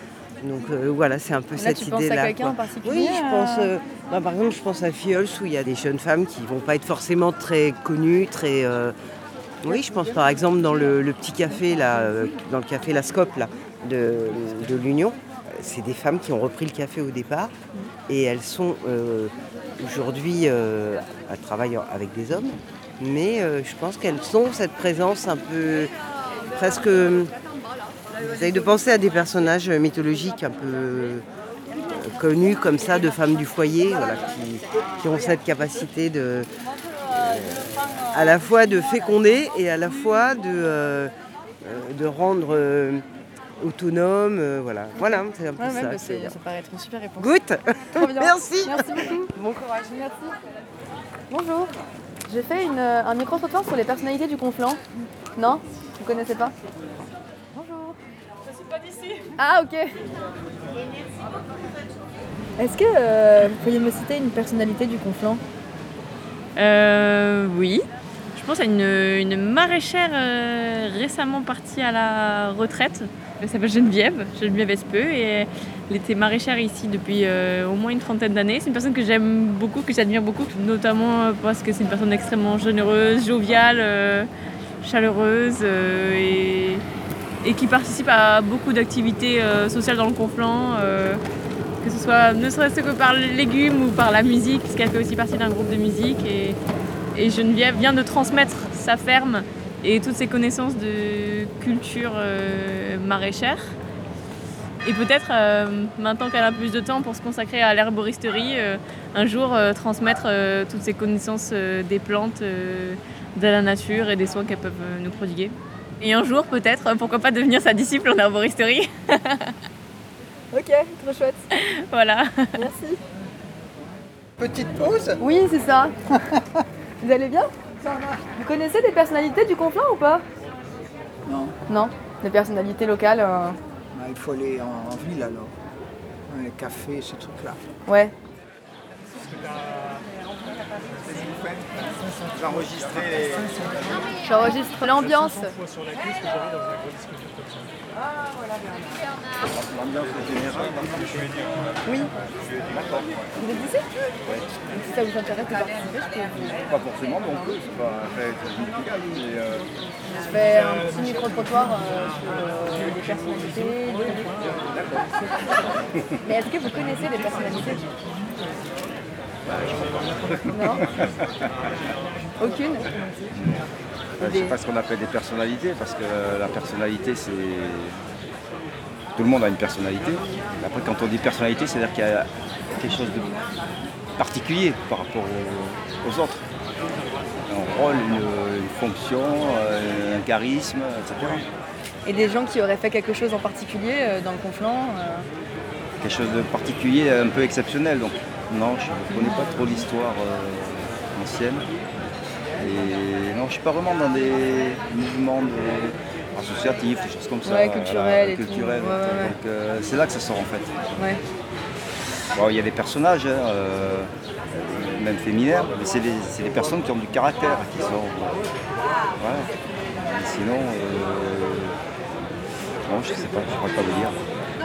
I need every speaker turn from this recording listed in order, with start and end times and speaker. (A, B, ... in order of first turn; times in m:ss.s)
0:00.4-0:08.9 A
0:01.5-0:03.7 B
0:09.6-0:17.5 A
0:18.1-0:25.9 A
0:26.5-0:27.3 A
0:28.1-0:31.2 A
0:31.8-0:36.5 A
0:37.1-0:43.0 A
0:43.6-0:46.3 A
0:44.9-0:47.3 B
0:47.2-0:49.8 A
0:47.9-0:50.4 B
0:51.3-0:51.7 B
0:52.3-0:54.8 B
0:55.4-0:56.5 B
0:57.5-0:58.0 B
0:59.3-0:59.9 B
1:02.6-1:05.4 B
1:06.6-1:07.8 C
1:08.3-1:24.3 C
1:24.8-1:26.8 C
1:27.4-1:31.2 C
1:31.8-1:36.6 C
1:37.1-1:43.8 C
1:44.8-1:59.5 C
2:00.5-2:01.4 B
2:01.5-2:02.6 C
2:02.6-2:03.0 B
2:04.4-2:05.2 D
2:05.2-2:06.0 B
2:07.0-2:07.5 B
2:08.4-2:10.2 B
2:11.2-2:11.5 D
2:11.7-2:13.6 B
2:13.9-2:15.5 D
2:16.3-2:17.6 D
2:17.9-2:18.1 B
2:22.3-2:23.8 E
2:24.2-2:25.6 B
2:29.5-2:31.3 E
2:31.8-2:32.1 B
2:32.7-2:33.1 E
2:33.4-2:33.8 B
2:34.7-2:36.6 B
2:36.7-2:39.6 E
2:40.2-2:44.4 B
2:44.6-2:45.1 E
2:46.2-2:47.8 B
2:49.4-2:51.5 E
2:50.5-2:50.8 B
2:52.4-2:52.9 B
2:53.3-2:53.7 E
2:54.2-2:54.6 B
2:54.2-2:58.0 E
2:59.1-3:03.4 E
3:04.2-3:06.4 E
3:07.5-3:11.5 E
3:12.0-3:15.3 B
3:16.0-3:21.7 E
3:22.6-3:31.0 E
3:27.4-3:29.3 B
3:31.0-3:31.2 B
3:32.3-3:38.4 E
3:39.2-3:41.8 E
3:42.9-3:44.2 E